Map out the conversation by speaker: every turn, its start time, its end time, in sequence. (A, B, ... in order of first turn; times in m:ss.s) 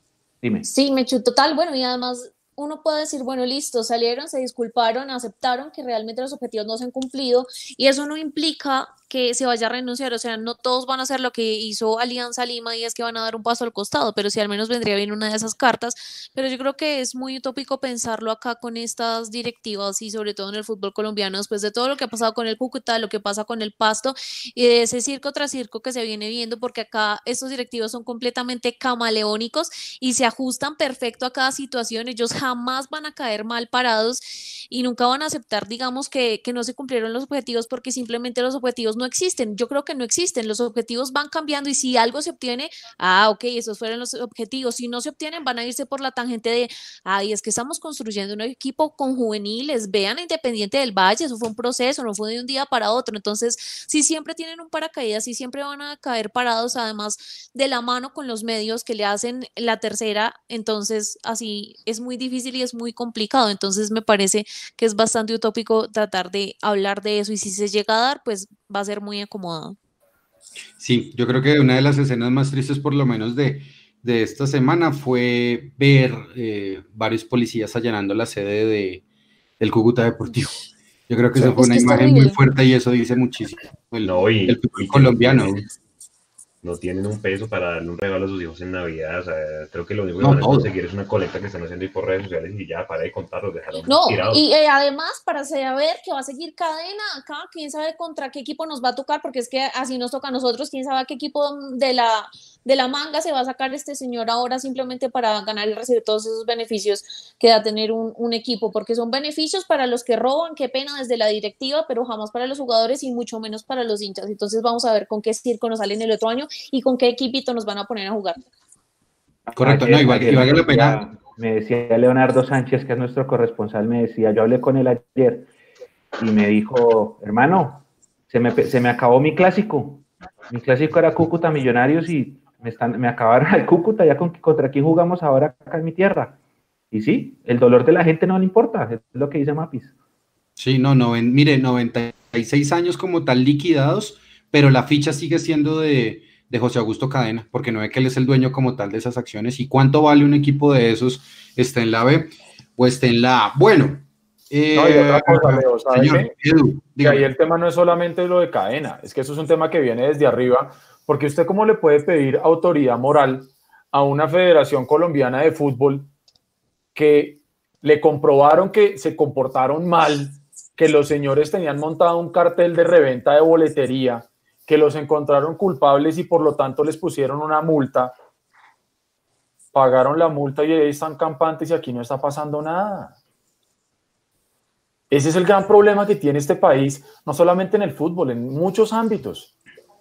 0:00.4-0:00.7 A
0:00.6-1:09.8 B
1:10.8-1:19.0 C
1:19.6-1:25.6 C
1:21.3-1:22.4 B
1:24.0-1:25.7 D
1:26.6-1:34.4 D
1:30.2-1:30.7 C
1:33.8-1:58.4 B
1:59.5-2:05.5 A
1:59.6-2:01.0 C
2:06.2-2:16.4 A
2:16.9-2:19.9 A
2:20.6-2:37.2 C
2:34.7-2:36.3 E
2:37.0-2:46.1 E
2:46.9-2:58.1 E
2:59.7-3:03.1 E
3:05.1-3:09.5 E